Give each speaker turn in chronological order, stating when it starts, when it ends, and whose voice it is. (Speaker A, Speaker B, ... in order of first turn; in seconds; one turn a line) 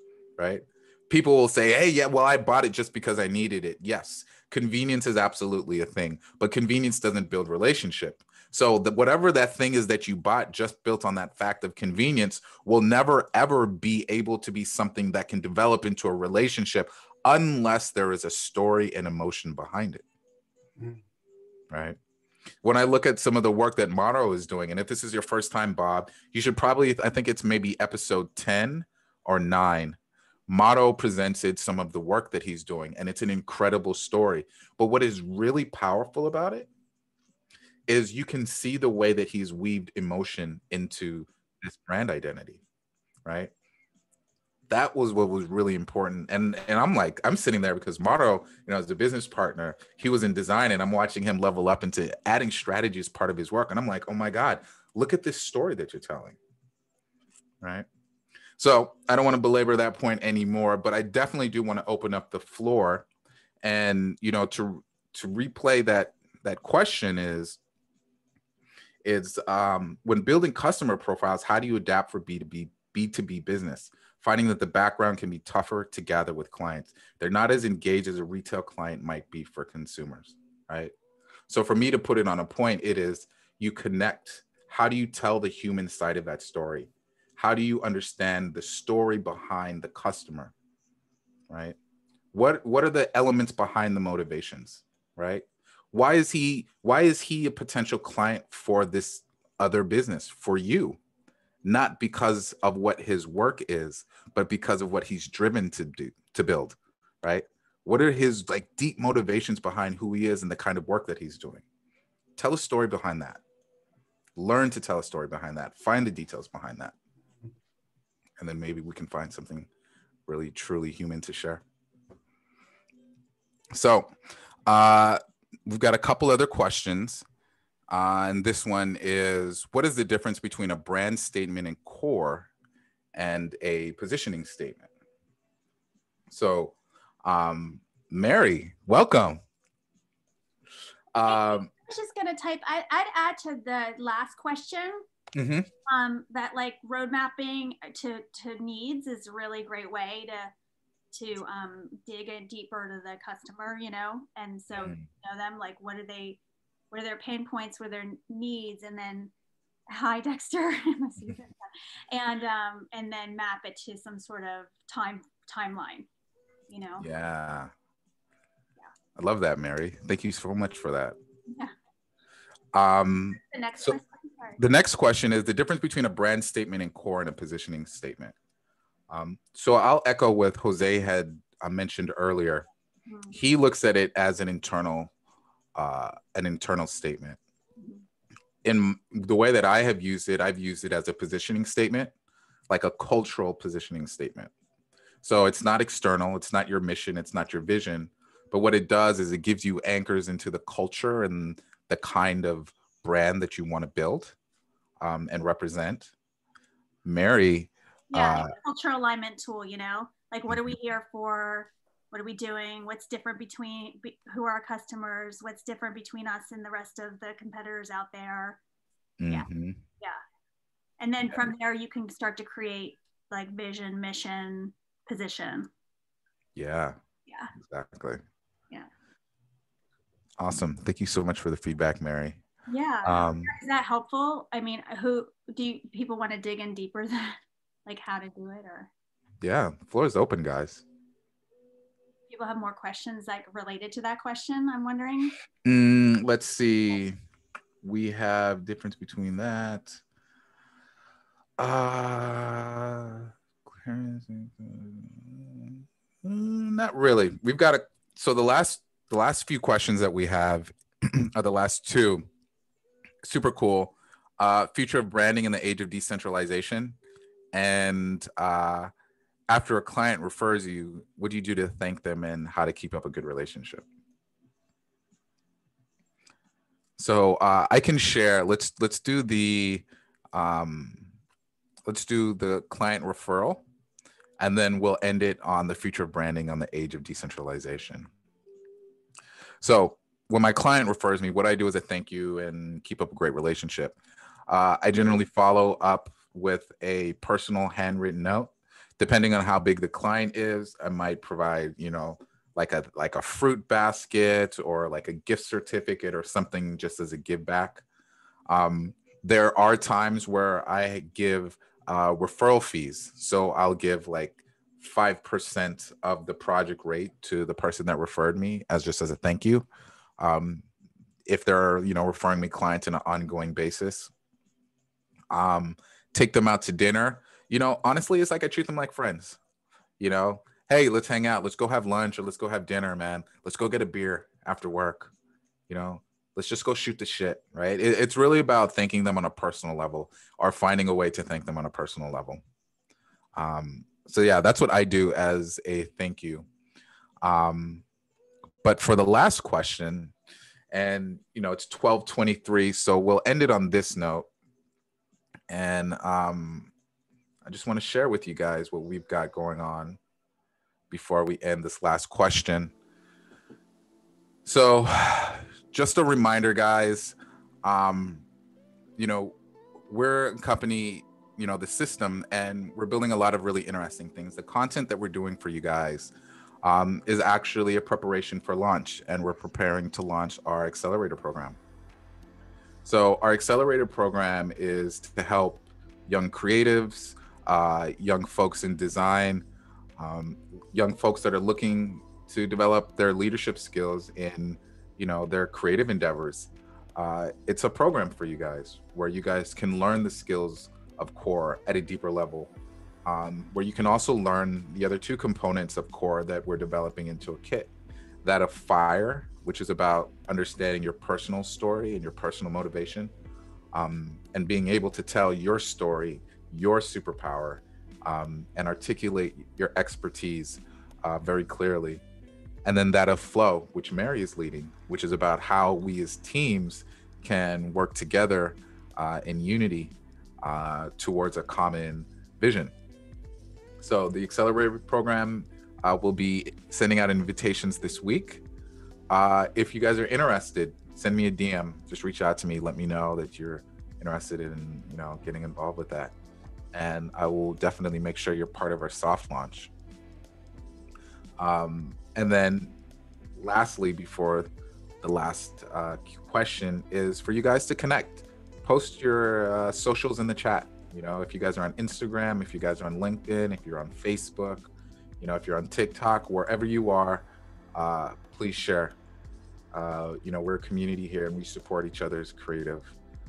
Speaker A: 0.4-20.0
Speaker A: 21.7-22.0
Speaker A: 22.6-30.0
Speaker A: 30.5-36.7
Speaker A: 37.9-42.6
Speaker A: 43.2-43.5
Speaker A: 44.7-56.4
Speaker A: 58.6-63.1
Speaker A: 63.6-67.6
Speaker A: 69.0-80.9
Speaker A: 81.5-90.5
Speaker A: 91.5-91.8
Speaker A: 92.3-101.0
Speaker A: 101.6-111.6
Speaker A: 112.4-113.4
Speaker A: 114.4-116.9
Speaker A: 118.4-119.7
Speaker A: 120.3-121.6
Speaker A: 123.7-124.1
Speaker A: 124.7-127.2
Speaker A: 127.9-132.5
Speaker A: 133.1-134.9
Speaker A: 136.3-139.4
Speaker A: 141.1-141.7
Speaker B: 141.3-145.1
Speaker A: 145.3-145.7
Speaker B: 145.9-150.5
Speaker B: 151.1-156.4
Speaker A: 154.8-155.1
Speaker B: 156.9-159.3
Speaker B: 159.9-166.1
Speaker B: 166.7-167.1
Speaker A: 167.0-167.7
Speaker A: 169.2-171.2
Speaker B: 171.5-171.7
Speaker A: 172.7-174.0
Speaker B: 173.5-174.6
Speaker A: 174.6-178.3
Speaker A: 179.1-182.7
Speaker B: 183.1-183.3
Speaker A: 183.3-185.1
Speaker A: 185.8-187.4
Speaker B: 187.8-188.0
Speaker A: 188.6-192.1
Speaker A: 192.7-194.5
Speaker A: 195.2-204.3
Speaker A: 205.0-206.1
Speaker A: 207.1-208.5
Speaker B: 208.1-218.6
Speaker A: 210.5-210.8
Speaker A: 219.2-219.8
Speaker B: 221.0-225.7
Speaker A: 226.6-227.0
Speaker A: 227.6-228.2
Speaker A: 230.4-232.4
Speaker B: 232.7-238.9
Speaker A: 233.1-233.5
Speaker A: 239.4-240.8
Speaker B: 242.3-245.3
Speaker A: 245.7-247.2
Speaker A: 247.8-250.0
Speaker A: 251.6-262.3
Speaker A: 263.2-267.0
Speaker A: 267.5-268.9
Speaker A: 269.5-273.9
Speaker A: 277.0-281.1
Speaker A: 281.9-283.6
Speaker A: 284.4-288.1
Speaker A: 289.6-294.0
Speaker A: 294.5-307.8
Speaker A: 308.5-319.6
Speaker A: 320.2-320.6
Speaker A: 321.3-324.1
Speaker A: 325.3-329.4
Speaker A: 330.0-335.1
Speaker A: 335.7-342.4
Speaker A: 343.4-346.5
Speaker A: 347.2-347.8
Speaker A: 348.6-350.1
Speaker A: 350.7-354.3
Speaker A: 355.5-356.7
Speaker A: 357.4-360.0
Speaker A: 360.9-362.7
Speaker A: 364.4-368.2
Speaker A: 369.0-369.4
Speaker A: 369.9-376.1
Speaker A: 376.6-381.6
Speaker A: 382.9-389.5
Speaker A: 390.0-402.5
Speaker A: 403.1-407.7
Speaker A: 408.2-413.1
Speaker A: 413.7-422.0
Speaker A: 422.6-432.7
Speaker A: 433.8-438.4
Speaker A: 439.1-446.1
Speaker A: 446.7-449.7
Speaker A: 451.4-452.8
Speaker A: 453.4-454.5
Speaker A: 455.0-464.7
Speaker A: 465.2-468.9
Speaker A: 469.7-472.9